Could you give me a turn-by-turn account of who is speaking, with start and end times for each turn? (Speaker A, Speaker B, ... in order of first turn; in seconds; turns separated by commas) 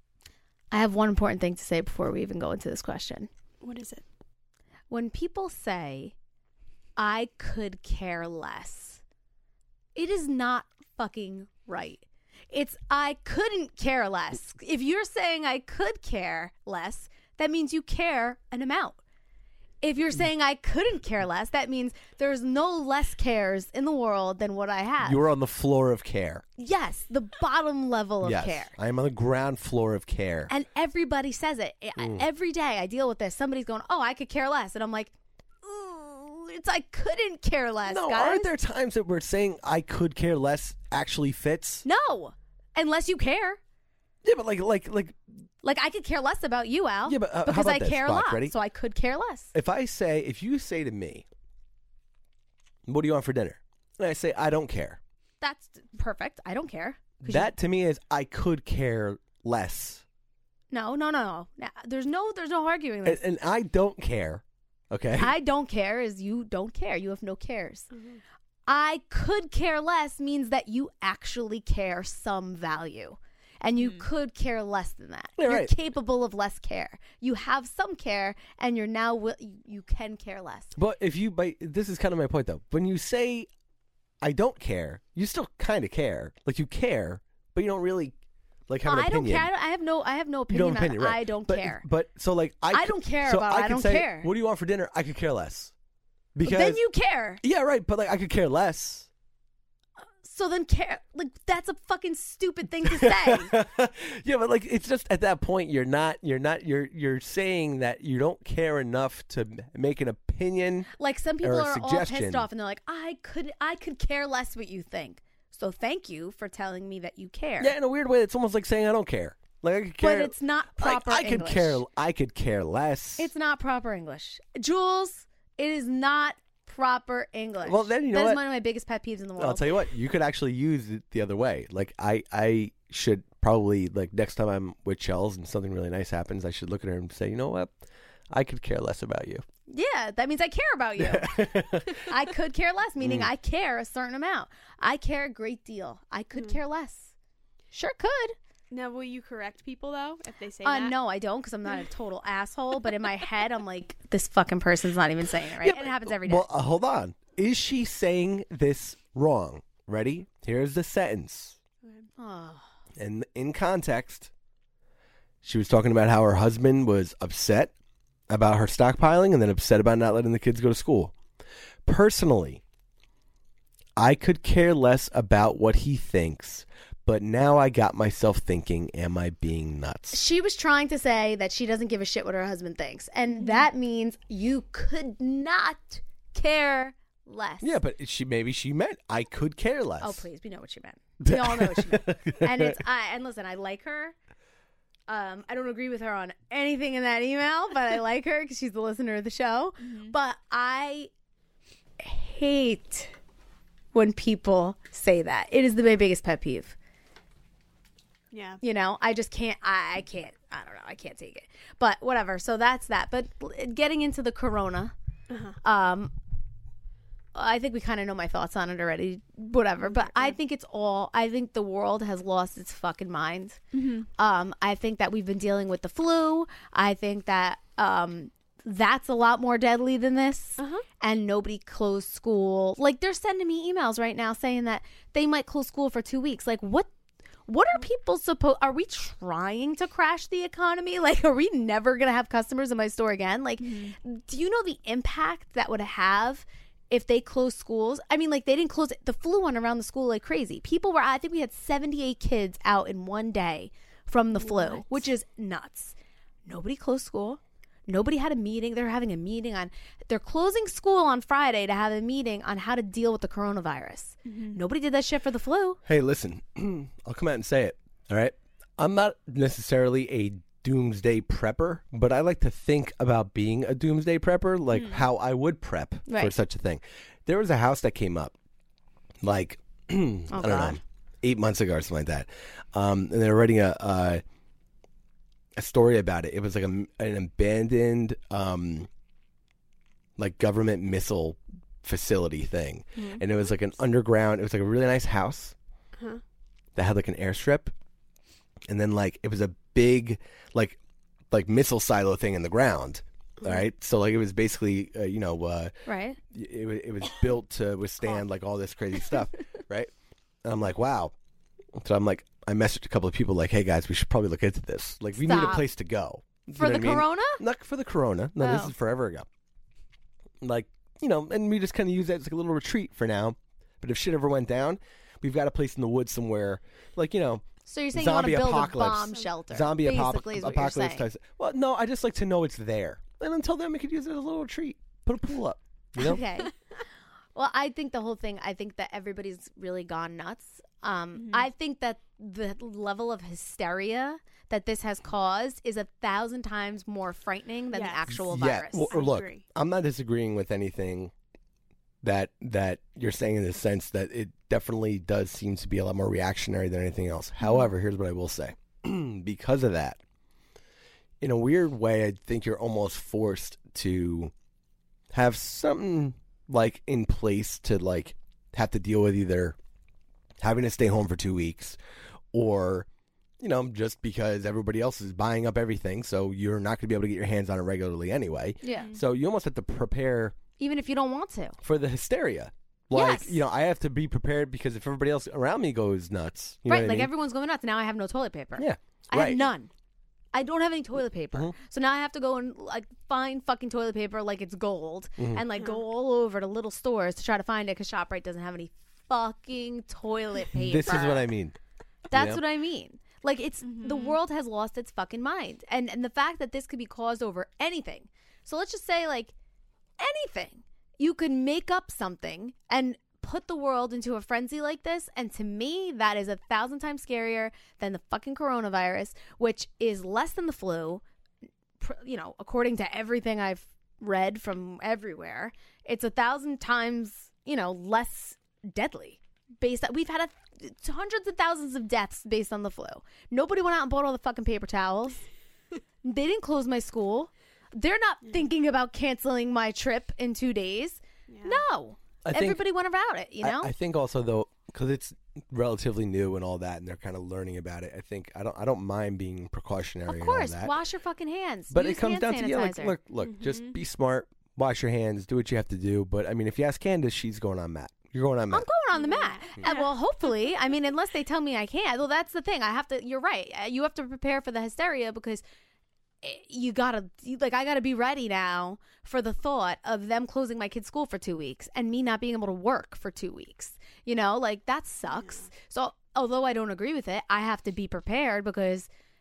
Speaker A: 0.7-3.3, Speaker B: 3.6-4.0, Speaker A: 4.9-6.1, Speaker A: 7.0-9.0, Speaker A: 9.9-19.0, Speaker A: 19.8-25.2, Speaker C: 25.0-26.4, Speaker A: 26.6-28.7, Speaker C: 28.2-30.5, Speaker A: 30.5-38.5, Speaker C: 32.0-32.3, Speaker C: 37.9-41.9, Speaker A: 41.9-43.6, Speaker C: 44.2-45.2, Speaker A: 45.6-49.5, Speaker C: 47.0-48.5, Speaker C: 49.5-51.3, Speaker C: 52.9-55.0, Speaker A: 55.4-57.5, Speaker C: 57.2-60.0, Speaker A: 60.7-63.2, Speaker C: 63.0-65.3, Speaker A: 65.2-67.9, Speaker B: 67.9-68.2, Speaker A: 68.7-80.7, Speaker B: 73.8-74.1, Speaker C: 75.4-75.7, Speaker C: 80.8-83.5, Speaker C: 84.2-88.2, Speaker C: 88.7-89.5, Speaker A: 88.8-91.8, Speaker C: 90.5-95.7, Speaker A: 92.7-94.3, Speaker C: 96.3-96.8, Speaker A: 96.5-97.4, Speaker C: 97.4-99.1, Speaker A: 100.2-103.5, Speaker C: 102.8-110.9, Speaker A: 111.0-117.7, Speaker C: 111.4-112.5, Speaker C: 117.6-123.3, Speaker A: 120.0-121.8, Speaker A: 123.2-129.8, Speaker C: 127.6-128.4, Speaker C: 129.4-137.8, Speaker C: 138.3-139.4, Speaker A: 139.7-147.1, Speaker C: 141.0-142.1, Speaker C: 143.0-143.3, Speaker A: 147.7-148.4, Speaker B: 148.7-151.0, Speaker A: 150.7-156.5, Speaker C: 155.6-161.6, Speaker A: 162.2-162.7, Speaker C: 163.0-164.3, Speaker C: 165.4-167.7, Speaker C: 168.3-171.1, Speaker C: 171.9-172.6, Speaker C: 174.0-180.2, Speaker A: 180.1-187.8, Speaker B: 183.4-183.7, Speaker C: 187.6-190.2, Speaker A: 190.0-194.2, Speaker C: 191.2-192.8, Speaker A: 195.1-201.1, Speaker B: 199.8-200.1, Speaker A: 202.0-203.1, Speaker A: 203.9-206.8, Speaker B: 208.3-208.6, Speaker A: 208.6-214.9, Speaker B: 215.3-215.6, Speaker A: 215.6-216.1, Speaker A: 217.3-223.6, Speaker B: 219.8-220.4, Speaker B: 223.7-224.1, Speaker A: 224.2-236.9, Speaker B: 230.6-230.8, Speaker A: 237.5-255.9, Speaker B: 243.6-243.9, Speaker B: 254.3-255.1, Speaker A: 256.5-265.8, Speaker B: 264.3-264.6, Speaker C: 265.9-278.4, Speaker A: 276.1-276.3, Speaker C: 279.2-284.2, Speaker A: 280.3-280.8, Speaker C: 285.6-288.9, Speaker C: 290.2-295.6, Speaker C: 296.8-297.7, Speaker C: 298.7-300.8, Speaker C: 301.3-305.7, Speaker A: 305.9-306.2, Speaker C: 306.3-309.9, Speaker C: 310.4-311.1, Speaker C: 311.8-319.3, Speaker A: 315.2-315.7, Speaker A: 316.6-317.4, Speaker A: 318.4-318.7, Speaker C: 320.4-336.2, Speaker A: 327.7-331.1, Speaker A: 336.0-336.5, Speaker A: 337.4-349.0, Speaker B: 341.1-341.5, Speaker B: 347.7-348.2, Speaker C: 348.1-351.1, Speaker B: 348.9-349.4, Speaker C: 352.0-360.0, Speaker C: 361.2-364.3, Speaker C: 365.1-369.6, Speaker C: 370.4-371.8, Speaker C: 372.3-372.9, Speaker C: 373.4-380.4, Speaker A: 378.6-378.9, Speaker A: 380.6-381.6, Speaker C: 381.6-387.1, Speaker A: 382.9-383.4, Speaker A: 386.7-389.7, Speaker C: 388.6-389.5, Speaker A: 390.3-401.3, Speaker C: 395.2-395.4, Speaker C: 400.5-401.6, Speaker A: 402.1-409.3, Speaker C: 402.1-402.4, Speaker B: 403.6-404.2, Speaker A: 410.0-421.0, Speaker A: 421.8-435.2, Speaker A: 436.0-443.7, Speaker B: 441.3-441.6, Speaker C: 442.2-442.6, Speaker C: 443.4-450.8, Speaker A: 450.1-452.9, Speaker C: 451.7-458.7, Speaker B: 453.2-453.8, Speaker A: 458.5-465.4, Speaker B: 458.9-460.6, Speaker A: 466.2-478.9, Speaker B: 475.0-475.5